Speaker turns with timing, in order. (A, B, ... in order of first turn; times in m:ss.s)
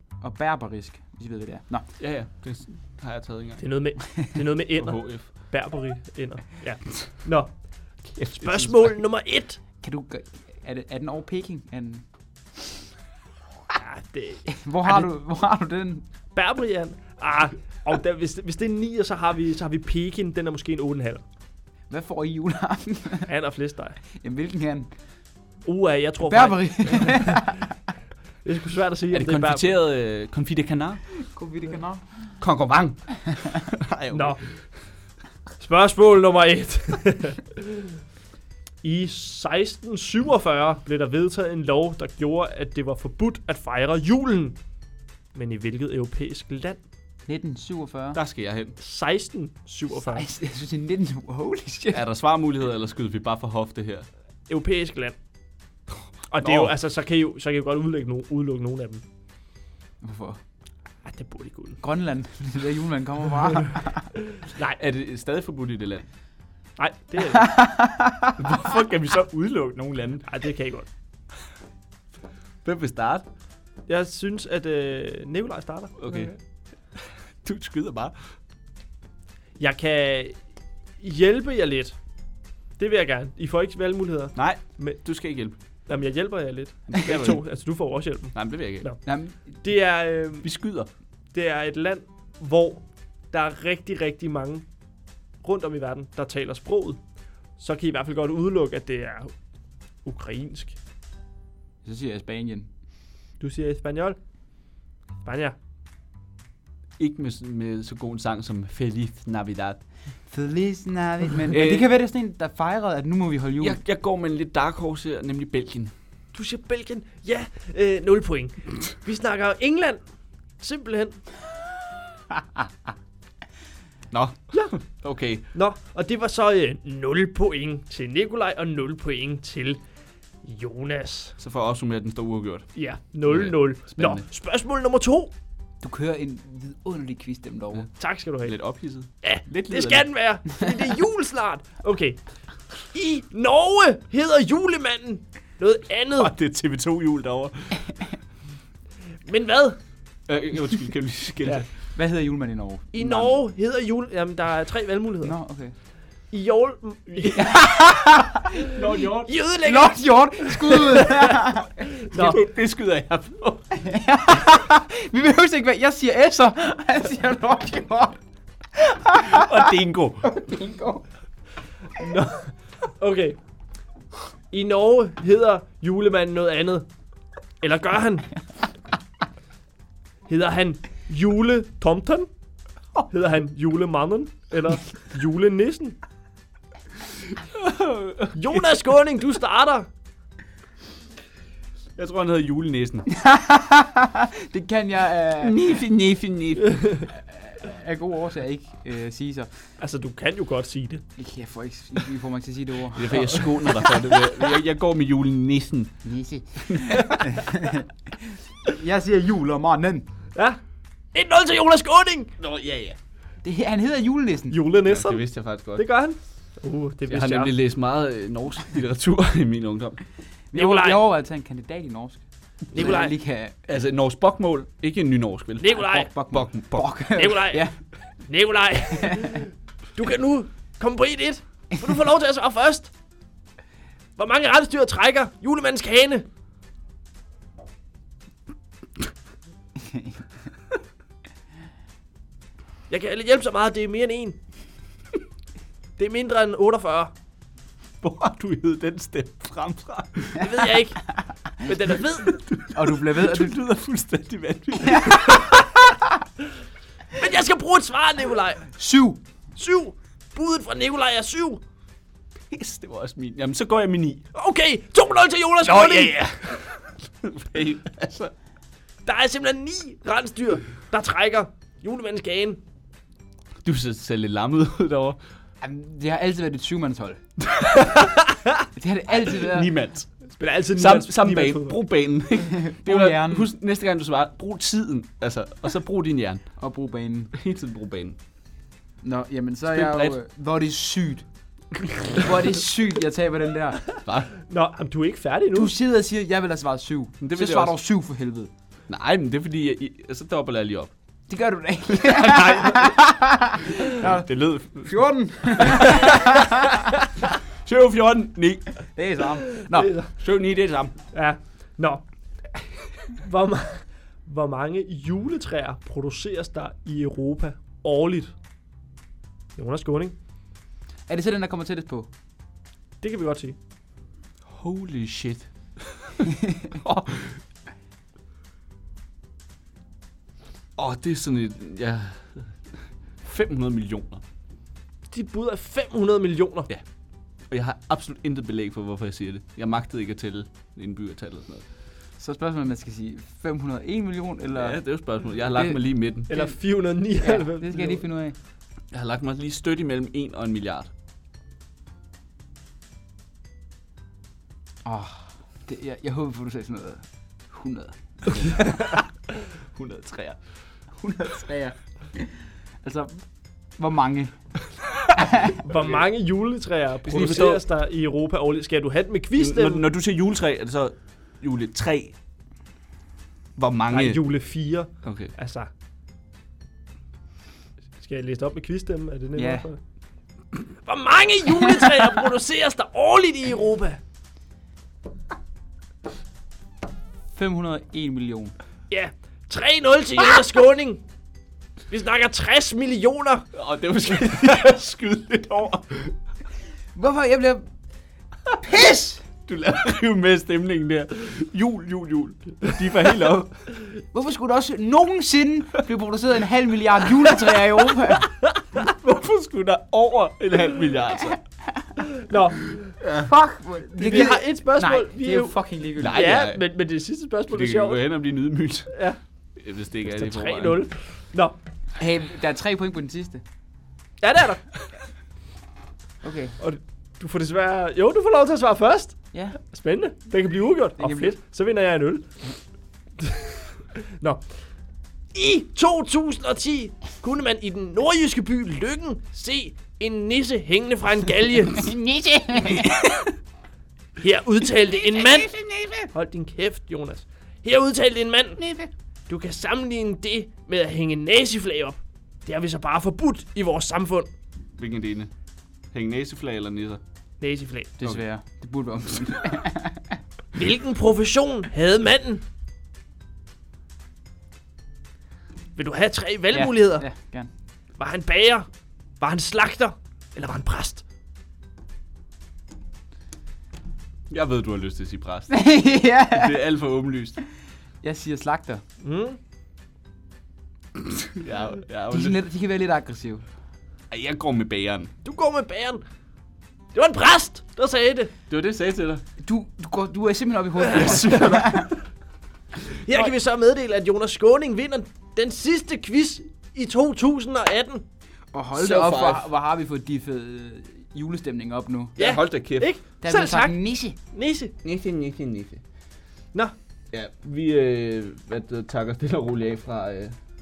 0:00.2-0:01.9 A
0:02.0-0:03.6 B
0:03.6-0:09.6 C
0:04.8-0:05.3 B
0:08.1-0:08.8 B
0:09.8-0:12.0 A
0:13.7-0:15.1 C
0:14.5-0:16.0 A
0:16.3-0:21.2 C
0:21.9-0:23.3 A
0:23.3-0:24.0 C
0:24.1-0:24.9 A
0:25.6-0:27.4 C
0:26.2-0:27.7 A
0:28.4-0:29.7 C
0:29.1-0:31.0 B
0:31.2-0:32.4 A
0:32.4-0:34.4 B
0:34.1-0:34.4 C
0:35.6-0:38.0 C
0:38.8-0:44.6 C
0:45.3-0:46.8 C
0:47.3-0:48.2 A
0:48.1-0:48.8 B
0:48.8-0:50.2 C
0:49.9-0:52.0 A
0:51.9-0:54.1 B
0:54.5-0:55.2 C
0:56.3-0:59.0 C
0:56.4-0:56.7 B
1:00.0-1:00.4 A
1:01.0-1:01.8 C
1:01.8-1:04.1 A
1:04.7-1:06.0 B
1:06.8-1:07.6 C
1:07.4-1:08.3 A
1:08.4-1:10.2 B
1:10.2-1:10.9 C
1:12.6-1:13.2 B
1:13.9-1:16.4 C
1:16.0-1:16.3 B
1:17.4-1:18.2 B
1:19.6-1:20.4 C
1:21.0-1:22.0 C
1:22.8-1:25.0 C
1:24.3-1:25.6 B
1:25.9-1:29.0 C
1:26.9-1:27.4 B
1:28.3-1:28.9 B
1:29.0-1:29.5 A
1:29.6-1:30.5 C
1:30.4-1:30.9 B
1:31.3-1:34.7 C
1:35.4-1:37.0 C
1:37.6-1:39.3 C
1:40.0-1:40.8 C
1:41.8-1:42.7 A
1:43.4-1:44.2 C
1:45.2-1:45.5 C
1:47.0-1:49.8 B
1:50.3-1:53.8 A
1:51.5-1:51.9 B
1:53.6-1:55.9 B
1:56.3-2:00.0 C
2:00.6-2:01.3 C
2:04.1-2:05.4 B
2:05.5-2:09.8 C
2:10.4-2:11.4 C
2:11.4-2:12.7 B
2:12.7-2:15.3 C
2:13.2-2:14.2 B
2:15.8-2:17.9 A
2:18.0-2:18.6 C
2:18.4-2:20.1 B
2:19.2-2:22.2 C
2:22.7-2:26.3 C
2:26.2-2:28.0 B
2:29.2-2:29.8 C
2:30.3-2:31.6 B
2:31.9-2:33.3 A
2:32.9-2:35.4 C
2:35.2-2:35.7 A
2:36.3-2:37.5 C
2:37.3-2:38.8 A
2:38.7-2:39.4 B
2:39.2-2:41.2 C
2:39.5-2:41.8 A
2:42.0-2:42.4 C
2:42.1-2:43.7 B
2:43.7-2:48.2 A
2:48.7-2:49.5 A
2:49.2-2:50.3 B
2:50.2-2:51.0 A
2:52.0-2:53.4 C
2:54.5-2:56.9 C
2:57.6-2:58.4 C
3:00.3-3:02.3 C
3:03.1-3:06.0 C
3:07.5-3:08.8 B
3:08.3-3:09.9 C
3:12.0-3:13.1 B
3:13.1-3:15.8 A
3:15.4-3:16.9 B
3:17.0-3:19.7 A
3:19.8-3:21.0 C
3:21.2-3:23.7 A
3:22.9-3:26.0 B
3:26.0-3:30.1 A
3:26.7-3:27.0 B
3:31.1-3:32.3 C
3:32.4-3:33.0 B
3:33.4-3:34.6 A
3:34.5-3:37.5 C
3:34.8-3:35.8 B
3:37.1-3:40.0 B
3:40.5-3:43.6 A
3:40.5-3:41.0 C
3:42.7-3:43.1 C
3:43.6-3:46.9 B
3:45.6-3:46.1 C
3:45.7-3:47.8 A
3:47.1-3:52.9 C
3:48.9-3:49.4 A
3:54.2-3:56.3 C
4:02.9-4:04.4 C
4:06.0-4:07.1 C
4:08.0-4:10.7 B
4:10.4-4:12.4 C
4:12.2-4:15.3 B
4:12.7-4:13.5 A
4:14.9-4:15.2 A
4:17.1-4:18.7 C
4:18.7-4:19.2 A
4:19.6-4:21.6 C
4:22.5-4:24.2 B
4:24.3-4:26.3 C
4:25.6-4:28.3 B
4:29.0-4:32.6 C
4:33.6-4:35.2 B
4:35.6-4:37.2 A
4:37.5-4:37.9 B
4:37.9-4:38.3 C
4:38.7-4:39.7 A
4:39.3-4:40.2 B
4:40.3-4:41.8 C
4:40.7-4:46.5 B
4:42.5-4:43.5 A
4:46.6-4:47.3 A
4:47.3-4:48.2 B
4:49.0-4:51.3 A
4:49.7-4:50.1 B
4:52.1-4:53.9 A
4:54.0-4:54.3 B
4:54.5-4:55.7 C
4:55.5-4:58.5 A
4:57.2-4:57.8 B
4:58.9-5:00.9 B
5:01.3-5:06.7 A
5:01.9-5:02.9 B
5:03.9-5:05.0 B
5:05.6-5:06.0 B
5:07.6-5:08.7 B
5:08.9-5:09.9 A
5:09.7-5:10.1 C
5:10.2-5:10.9 B
5:11.1-5:12.0 C
5:13.1-5:18.3 C
5:19.6-5:20.2 C
5:21.1-5:22.1 A
5:23.0-5:23.6 C
5:24.4-5:27.4 B
5:30.8-5:34.2 B
5:35.1-5:36.7 C
5:37.5-5:41.6 B
5:42.2-5:44.8 A
5:44.6-5:46.3 B
5:46.3-5:46.5 A
5:46.3-5:48.0 C
5:47.2-5:48.4 A
5:48.9-5:50.9 B
5:54.8-5:58.7 A
5:58.6-5:58.9 B
5:59.7-6:00.4 B
6:00.9-6:04.4 A
6:05.1-6:05.6 A
6:05.6-6:09.8 C
6:07.0-6:07.6 B
6:09.4-6:12.2 B
6:13.6-6:14.2 B
6:13.9-6:15.7 C
6:15.0-6:15.3 B
6:18.0-6:19.8 C
6:19.4-6:19.6 A
6:20.8-6:24.0 C
6:27.3-6:28.5 A
6:28.9-6:31.0 C
6:31.9-6:33.5 C
6:33.5-6:36.2 B
6:36.9-6:37.7 A
6:38.6-6:39.2 A
6:39.4-6:43.6 B
6:44.1-6:48.3 A
6:48.7-6:51.4 B
6:52.2-6:52.9 C
6:53.0-6:56.2 A
6:54.0-6:55.6 C
6:56.0-6:56.6 B
6:56.1-6:58.0 C
6:57.5-7:00.8 B
6:58.9-6:59.2 C
7:00.1-7:01.5 C
7:02.0-7:03.4 A
7:04.2-7:04.7 C
7:06.2-7:06.6 A
7:06.6-7:12.4 C
7:09.3-7:09.6 A
7:11.0-7:11.3 A
7:13.2-7:14.4 C
7:15.3-7:21.9 C
7:21.8-7:23.2 A
7:24.2-7:28.6 C
7:25.0-7:26.1 A
7:28.6-7:28.9 A
7:29.3-7:34.3 C
7:34.8-7:35.3 B
7:35.9-7:37.0 B
7:37.4-7:37.9 C
7:38.0-7:40.2 A
7:40.5-7:42.4 C
7:45.8-7:47.1 C
7:46.5-7:47.5 A
7:48.0-7:48.7 C
7:49.2-7:51.0 C
7:54.3-7:55.7 B
7:55.5-7:56.5 A
7:56.3-7:57.4 B
7:58.0-7:58.8 A
7:59.0-7:59.4 C
8:01.0-8:02.4 B
8:02.1-8:03.4 A
8:04.1-8:05.1 B
8:05.2-8:06.0 C
8:06.9-8:08.3 C
8:08.5-8:09.2 B
8:09.4-8:11.9 A
8:10.9-8:11.8 B
8:13.0-8:18.0 C
8:18.5-8:22.2 A
8:18.8-8:19.5 B
8:22.2-8:22.9 B
8:22.2-8:24.7 C
8:23.2-8:24.2 A
8:24.8-8:25.8 B
8:27.1-8:30.4 B